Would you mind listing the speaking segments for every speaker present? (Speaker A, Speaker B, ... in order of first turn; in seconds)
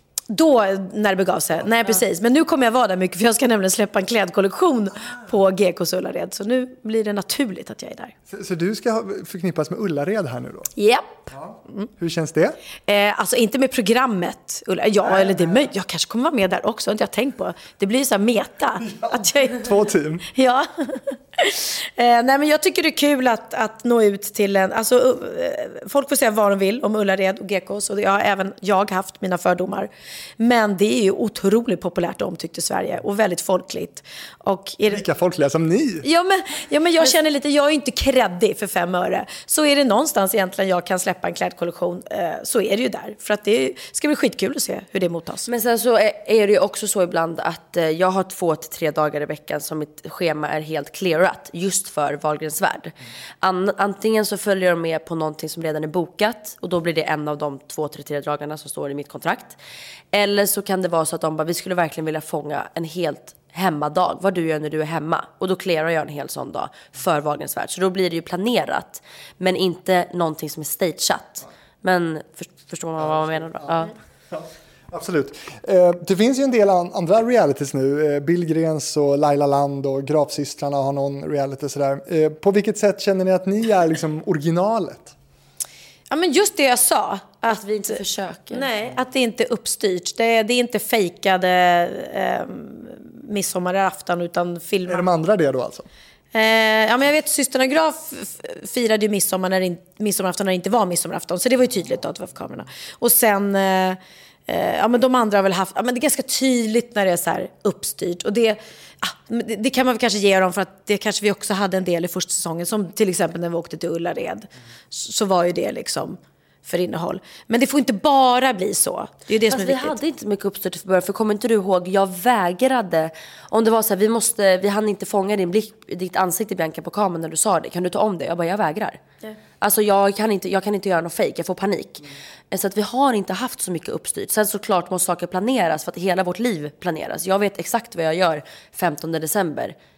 Speaker A: 0.3-8.1, 10.8-11.1, 12.8-19.7, 20.3-35.0, 36.0-45.5, 86.1-95.0, 96.3-120.0
Speaker B: 8.3-10.7, 11.3-12.6, 15.1-15.6, 18.8-20.3, 34.9-36.0, 74.3-85.1, 94.9-95.9
Speaker C: 45.5-59.5, 60.1-73.9, 87.5-88.7, 119.5-129.0, 129.6-139.7